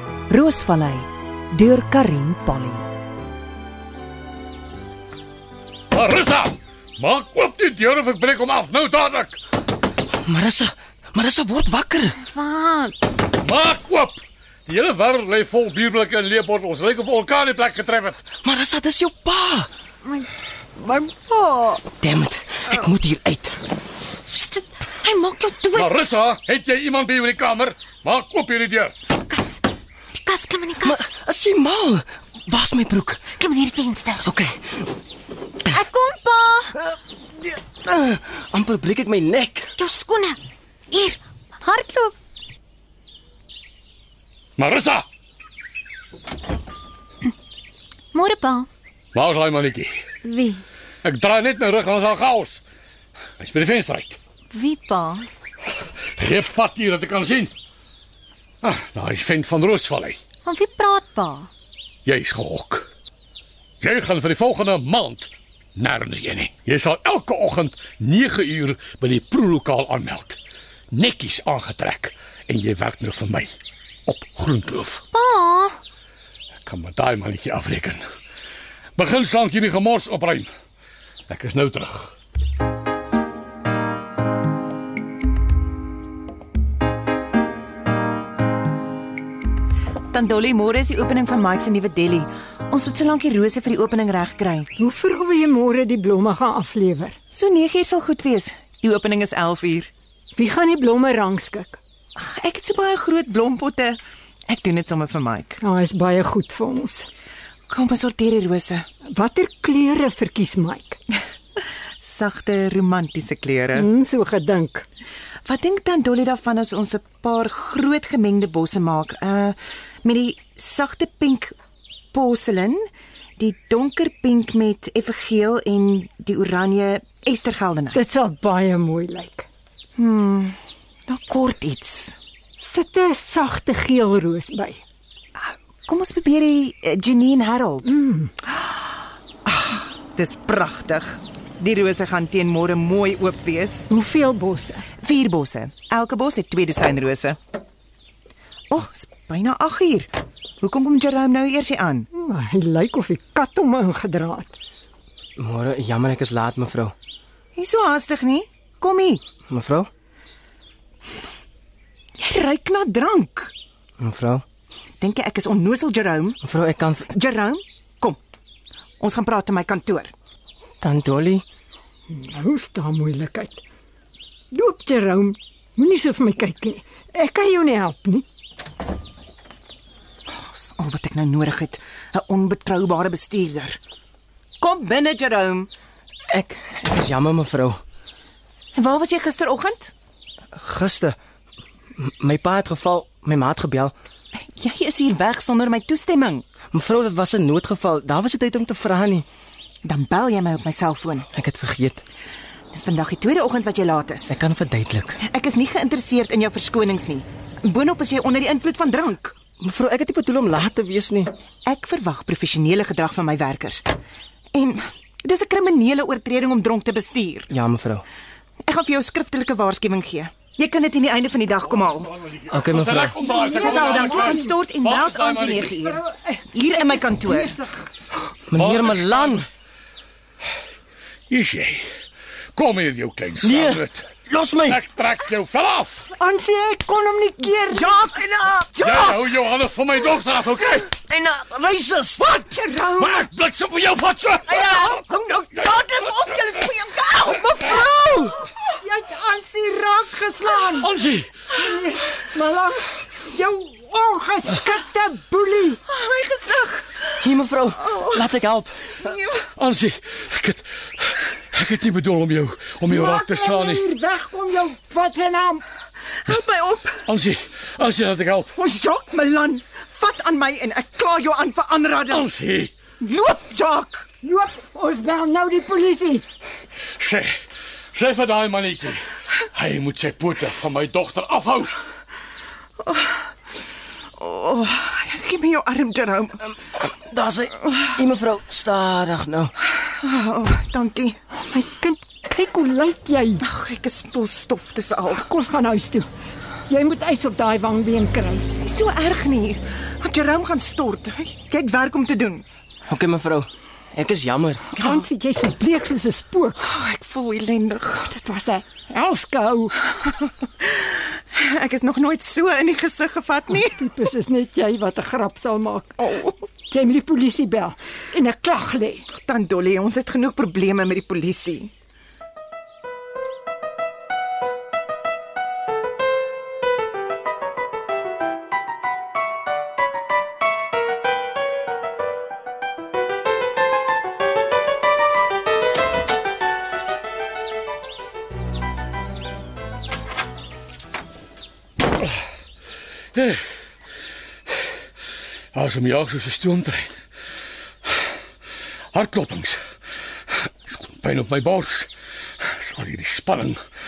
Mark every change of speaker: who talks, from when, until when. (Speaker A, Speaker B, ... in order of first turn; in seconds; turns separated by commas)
Speaker A: 0.3-2.8, Speaker B: 5.9-9.4, Speaker C: 10.2-12.2, Speaker D: 12.2-13.0, Speaker B: 13.4-18.2, Speaker C: 18.4-19.7, Speaker D: 20.0-21.8, Speaker C: 22.0-23.6, Speaker D: 24.3-26.0, Speaker B: 25.7-28.9, Speaker D: 29.2-31.1, Speaker C: 30.8-33.2, Speaker D: 33.4-34.3, Speaker C: 34.2-34.9, Speaker D: 35.7-36.8, Speaker C: 36.7-39.7, Speaker D: 39.8-40.4, Speaker D: 40.9-42.1, Speaker B: 44.6-45.0, Speaker D: 48.1-48.7, Speaker B: 49.1-49.9, Speaker D: 50.2-50.6, Speaker B: 51.0-52.6, Speaker B: 53.4-54.2, Speaker D: 54.5-55.3, Speaker B: 56.2-57.5, Speaker B: 58.6-60.2, Speaker D: 60.4-61.5, Speaker B: 62.0-62.9, Speaker B: 63.8-70.4, Speaker B: 70.9-73.5, Speaker B: 74.0-75.0, Speaker D: 75.1-75.8, Speaker B: 76.6-78.0, Speaker B: 79.0-80.5, Speaker B: 81.3-82.1, Speaker E: 90.1-94.7, Speaker F: 94.8-97.2, Speaker E: 97.3-99.9, Speaker F: 100.3-101.8, Speaker E: 102.2-105.6, Speaker F: 105.6-107.1, Speaker E: 107.7-108.8, Speaker F: 109.1-111.0, Speaker E: 112.0-113.9, Speaker F: 113.7-114.8, Speaker E: 115.4-121.5, Speaker E: 122.1-122.9, Speaker E: 123.4-128.0, Speaker F: 127.9-129.5, Speaker E: 129.9-130.6, Speaker E: 131.1-132.2, Speaker F: 132.6-134.8, Speaker E: 135.4-137.9, Speaker F: 137.8-138.3, Speaker E: 138.5-143.9, Speaker F: 143.9-144.8, Speaker E: 145.0-147.4, Speaker E: 148.7-150.1, Speaker E: 150.6-152.1, Speaker F: 152.1-154.6, Speaker C: 155.4-156.9, Speaker E: 157.5-159.2, Speaker C: 159.5-159.9, Speaker E: 162.2-163.5, Speaker C: 164.0-164.4, Speaker E: 165.0-166.4, Speaker C: 166.4-167.1, Speaker E: 167.1-168.2, Speaker E: 169.0-170.1, Speaker C: 170.8-171.4, Speaker F: 172.1-173.6, Speaker F: 174.5-178.2, Speaker E: 180.3-183.8, Speaker E: 184.6-185.7, Speaker C: 186.3-187.8, Speaker E: 188.7-189.9, Speaker C: 190.5-191.2, Speaker C: 192.0-193.9, Speaker E: 194.5-196.4, Speaker C: 196.7-199.2, Speaker E: 199.8-201.3, Speaker C: 201.3-202.0, Speaker E: 202.7-204.4, Speaker C: 204.3-205.2, Speaker E: 205.2-209.3, Speaker C: 209.6-211.3, Speaker E: 211.6-213.8, Speaker E: 214.5-217.5, Speaker C: 217.5-218.0, Speaker E: 218.7-222.1, Speaker B: 222.2-225.8, Speaker C: 222.5-223.2, Speaker F: 223.1-224.5, Speaker E: 223.4-227.6, Speaker F: 225.8-227.8, Speaker C: 228.5-229.5, Speaker B: 228.5-229.4, Speaker B: 231.3-231.8, Speaker B: 232.5-234.1, Speaker C: 233.4-234.8, Speaker B: 234.7-236.1, Speaker F: 236.1-238.0, Speaker E: 237.7-239.1, Speaker C: 238.1-239.0, Speaker B: 238.8-240.9, Speaker C: 240.9-242.4, Speaker E: 242.4-243.2, Speaker B: 243.0-244.7, Speaker C: 244.5-245.1, Speaker E: 244.7-247.8, Speaker B: 245.5-246.7, Speaker C: 247.3-248.3, Speaker F: 248.2-250.9, Speaker B: 250.8-251.3, Speaker F: 251.5-255.8, Speaker E: 255.9-257.3, Speaker C: 257.2-259.1, Speaker E: 257.8-258.2, Speaker E: 259.0-259.4, Speaker B: 259.6-263.8, Speaker F: 262.9-265.6, Speaker E: 266.2-267.0, Speaker B: 267.1-268.5, Speaker E: 268.6-272.3, Speaker B: 272.1-272.7, Speaker E: 273.0-274.1, Speaker F: 274.2-276.2, Speaker B: 277.0-277.3, Speaker B: 277.9-281.7, Speaker E: 282.8-283.2, Speaker E: 284.2-286.4, Speaker C: 286.7-289.5, Speaker E: 289.8-291.2, Speaker F: 291.4-293.4, Speaker E: 293.4-295.2, Speaker F: 295.1-296.1, Speaker F: 296.7-298.5, Speaker E: 298.5-302.4, Speaker C: 302.9-304.7, Speaker E: 304.8-305.1, Speaker F: 304.8-306.6, Speaker E: 306.6-308.1, Speaker F: 308.0-309.8, Speaker E: 310.6-313.8, Speaker F: 313.5-316.0, Speaker E: 316.0-316.3, Speaker F: 316.7-319.1, Speaker E: 319.1-321.7, Speaker B: 343.1-343.4, Speaker B: 345.5-347.0, Speaker B: 348.9-349.6, Speaker B: 350.6-351.9, Speaker B: 352.5-353.6